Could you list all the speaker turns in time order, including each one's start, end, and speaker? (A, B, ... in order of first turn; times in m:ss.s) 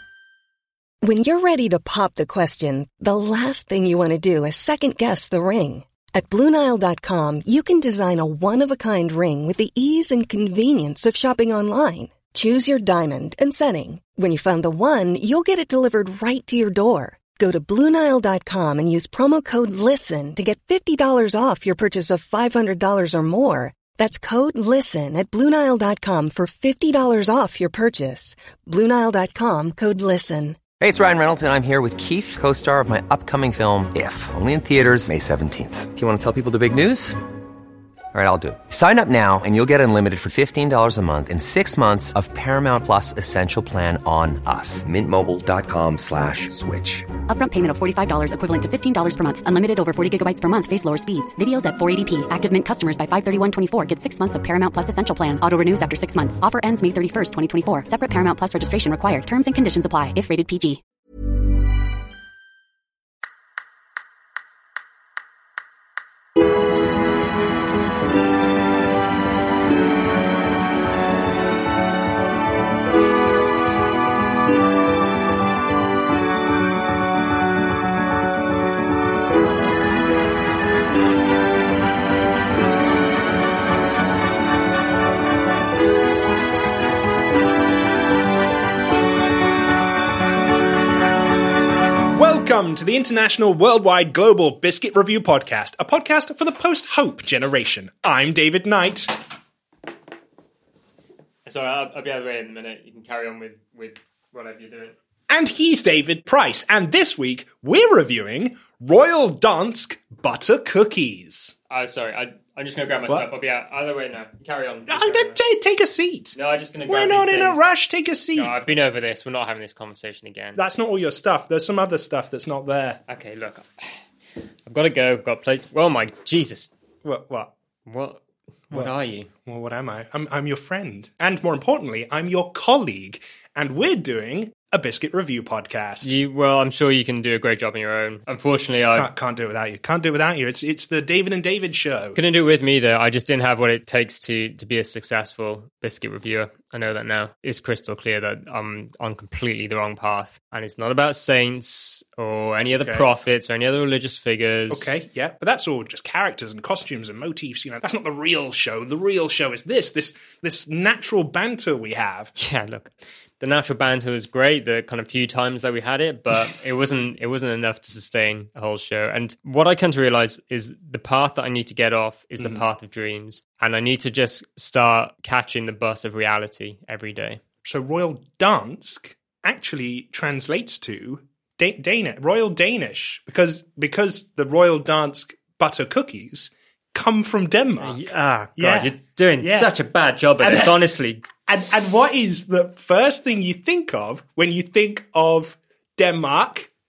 0:01.0-0:30.6 A
0:30.8-0:37.2 B
0:38.1-0:47.1 B
0:47.3-1:00.8 C
1:32.1-1:39.2 D
1:41.4-1:45.0 E
1:45.3-1:51.5 D
1:51.7-1:55.4 E
1:54.9-1:58.6 D
1:56.3-1:57.6 E
1:58.4-2:00.6 E
2:00.6-2:03.0 D
2:03.1-2:04.0 E
2:04.7-2:06.7 E
2:07.0-2:07.5 D
2:07.8-2:09.3 E
2:09.4-2:16.2 D
2:16.0-2:19.1 E
2:18.9-2:22.2 D
2:22.2-2:34.9 E
2:32.8-2:33.1 D
2:34.7-2:42.3 D
2:42.4-2:57.4 E
2:52.4-2:52.6 D
2:57.6-3:08.0 D
3:07.8-3:11.2 E
3:08.6-3:09.7 D
3:10.4-3:10.8 D
3:11.4-3:16.7 D